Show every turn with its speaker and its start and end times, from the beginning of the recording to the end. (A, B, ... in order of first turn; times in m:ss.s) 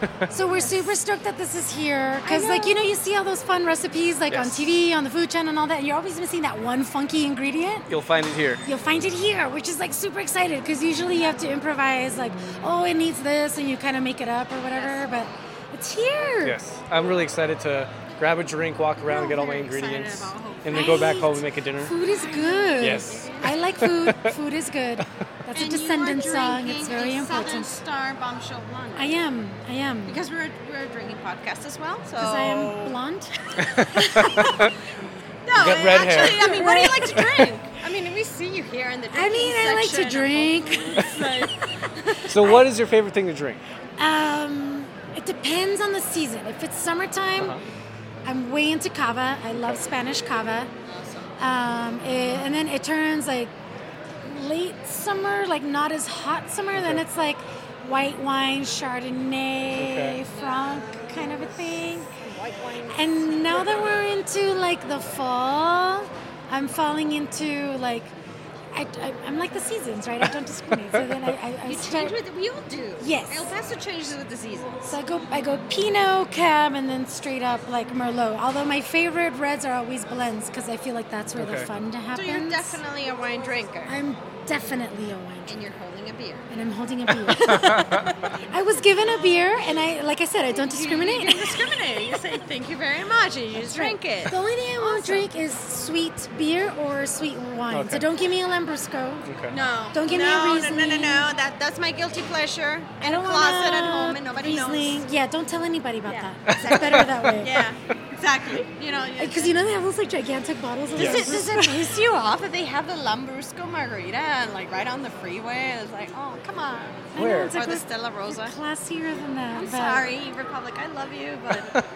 0:00.3-0:07.9 A
0:00.6-0:00.8 B
0:02.2-0:02.9 B
0:04.3-0:04.7 C
0:07.9-0:08.6 C
0:08.6-0:16.6 A
0:11.1-0:11.4 B
0:14.7-0:15.2 B
0:16.4-0:21.9 C
0:19.1-0:21.2 B
0:20.7-0:27.8 A
0:22.1-0:23.8 B
0:22.8-0:23.3 C
0:23.8-0:24.3 C
0:25.5-0:29.2 B
0:29.0-0:30.2 A
0:30.1-0:33.0 B
0:32.2-0:33.3 A
0:33.6-0:34.7 C
0:34.0-0:34.6 B
0:35.5-0:42.6 B
0:35.5-0:37.4 C
0:36.1-0:37.2 A
0:39.1-0:41.4 A
0:42.3-0:43.6 C
0:44.0-0:47.6 A
0:48.2-0:50.7 A
0:49.5-0:49.8 C
0:51.4-0:53.5 A
0:54.2-1:02.1 A
0:56.7-0:57.0 C
0:59.8-1:00.2 C
1:00.3-1:03.9 B
1:02.9-1:08.1 A
1:08.7-1:12.2 A
1:11.6-1:15.0 B
1:13.0-1:13.5 A
1:14.9-1:22.8 A
1:21.4-1:21.7 C
1:22.1-1:24.0 B
1:23.9-1:25.5 A
1:25.4-1:26.5 B
1:26.5-1:31.6 A
1:27.4-1:28.0 B
1:30.5-1:35.3 B
1:33.6-1:39.3 A
1:37.7-1:38.1 C
1:39.3-1:39.6 C
1:39.5-1:45.0 B
1:39.9-1:41.3 A
1:43.0-1:47.7 A
1:46.0-1:49.6 B
1:46.5-1:47.0 C
1:49.2-1:51.9 A
1:51.0-1:51.4 C
1:51.0-1:58.6 B
1:57.2-2:00.1 A
1:57.2-1:57.6 C
1:59.5-2:01.7 B